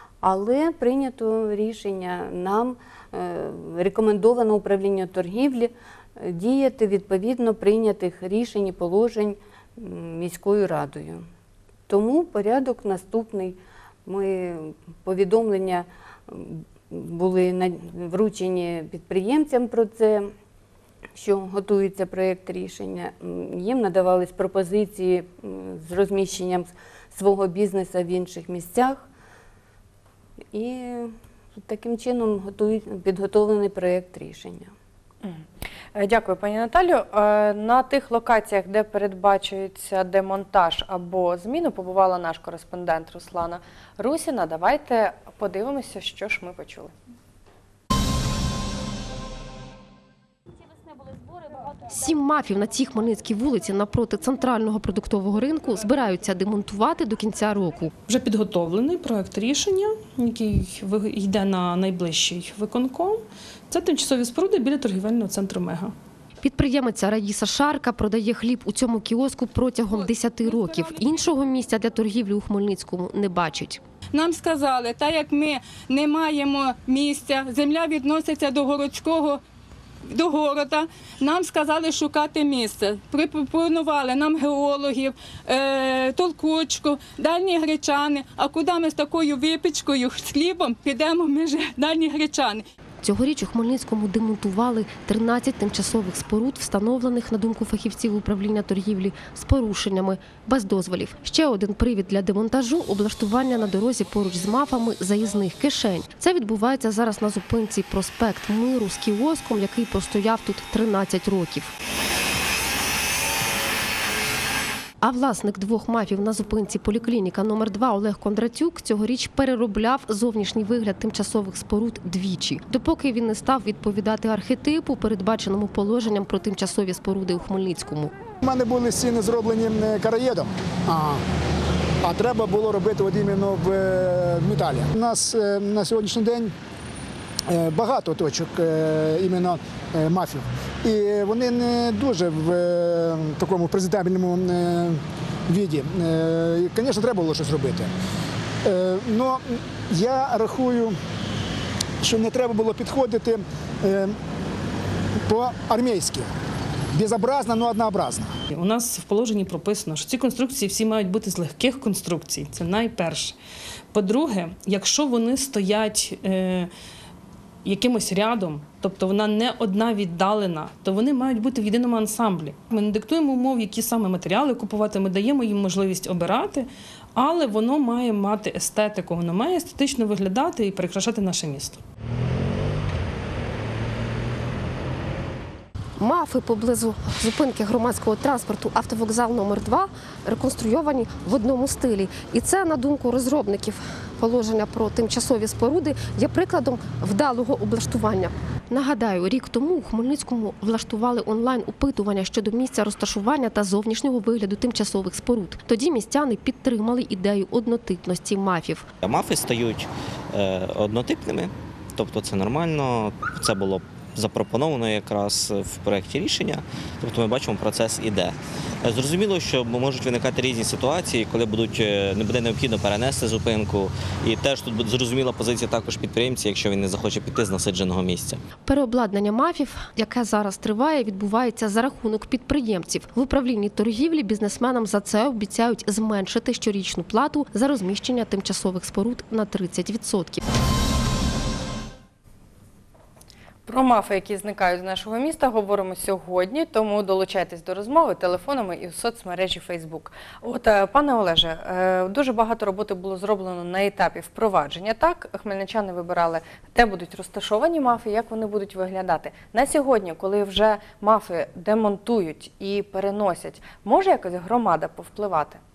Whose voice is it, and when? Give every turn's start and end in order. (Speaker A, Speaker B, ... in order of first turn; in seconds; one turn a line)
Speaker A: 0.2-11.2
Speaker A: 11.9-20.3
Speaker A: 21.2-29.1
Speaker A: 30.5-34.7
Speaker B: 35.2-46.9
Speaker C: 51.9-57.9
Speaker D: 58.1-65.9
Speaker C: 66.4-73.8
Speaker E: 74.1-79.4
Speaker E: 80.1-92.7
Speaker C: 93.0-111.7
Speaker C: 115.0-128.1
Speaker F: 128.4-131.2
Speaker F: 132.0-136.5
Speaker F: 137.5-147.9
Speaker F: 148.6-151.0
Speaker F: 152.0-154.2
Speaker F: 155.2-156.3
Speaker F: 156.9-158.3
Speaker D: 158.5-163.4
Speaker D: 163.9-166.7
Speaker D: 167.6-181.8
Speaker C: 186.0-208.9
Speaker G: 209.0-228.4
Speaker C: 228.7-240.4
Speaker B: 243.7-265.6